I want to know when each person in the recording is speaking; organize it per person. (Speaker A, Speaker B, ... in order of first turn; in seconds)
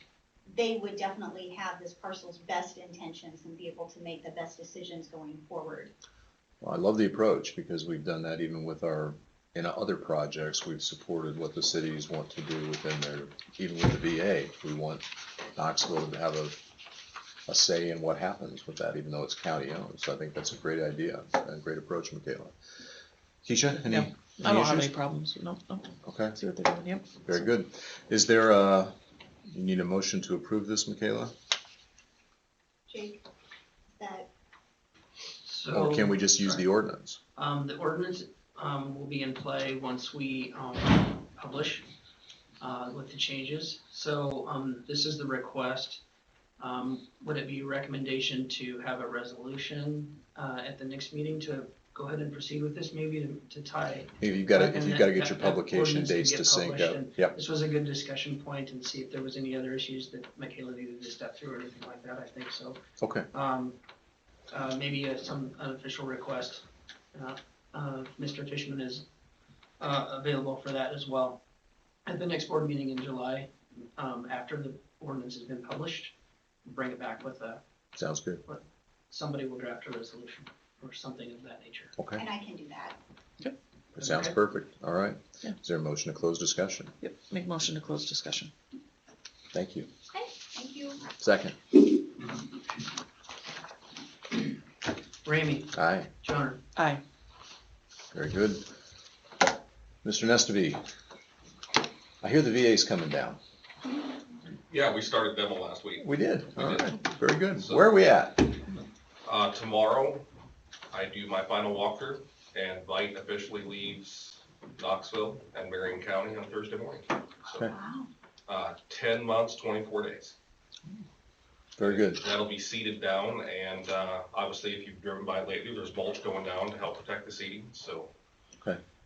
Speaker A: 0.5-5.9, 32.9-33.2, 33.9-34.3, 82.2-83.0, 90.1-91.1, 117.6-118.1
Speaker B: 6.6-16.6, 17.5-22.5, 23.4-24.9, 26.0-26.4, 27.2-28.9, 29.5-31.3, 35.7-37.2, 54.2-57.4, 63.0-63.3, 78.0-78.4, 82.0-82.2, 84.0-86.9, 89.5-89.9, 91.2-91.6, 95.7-96.1, 98.1-98.7, 100.0-100.8, 102.2-103.4, 106.0-108.6, 121.8-122.2
Speaker C: 23.9-27.2, 87.0-88.5, 96.8-97.0
Speaker D: 35.4-36.6, 37.4-41.9, 42.6-46.0, 46.6-62.8, 63.3-63.8, 64.5-69.0, 69.8-71.4, 72.0-76.1, 76.7-77.6, 78.5-81.9, 84.0-84.4, 95.2-96.6
Speaker E: 104.7-107.0, 107.5-107.8, 109.2-110.3, 110.9-117.7, 118.5-120.3, 121.8-128.1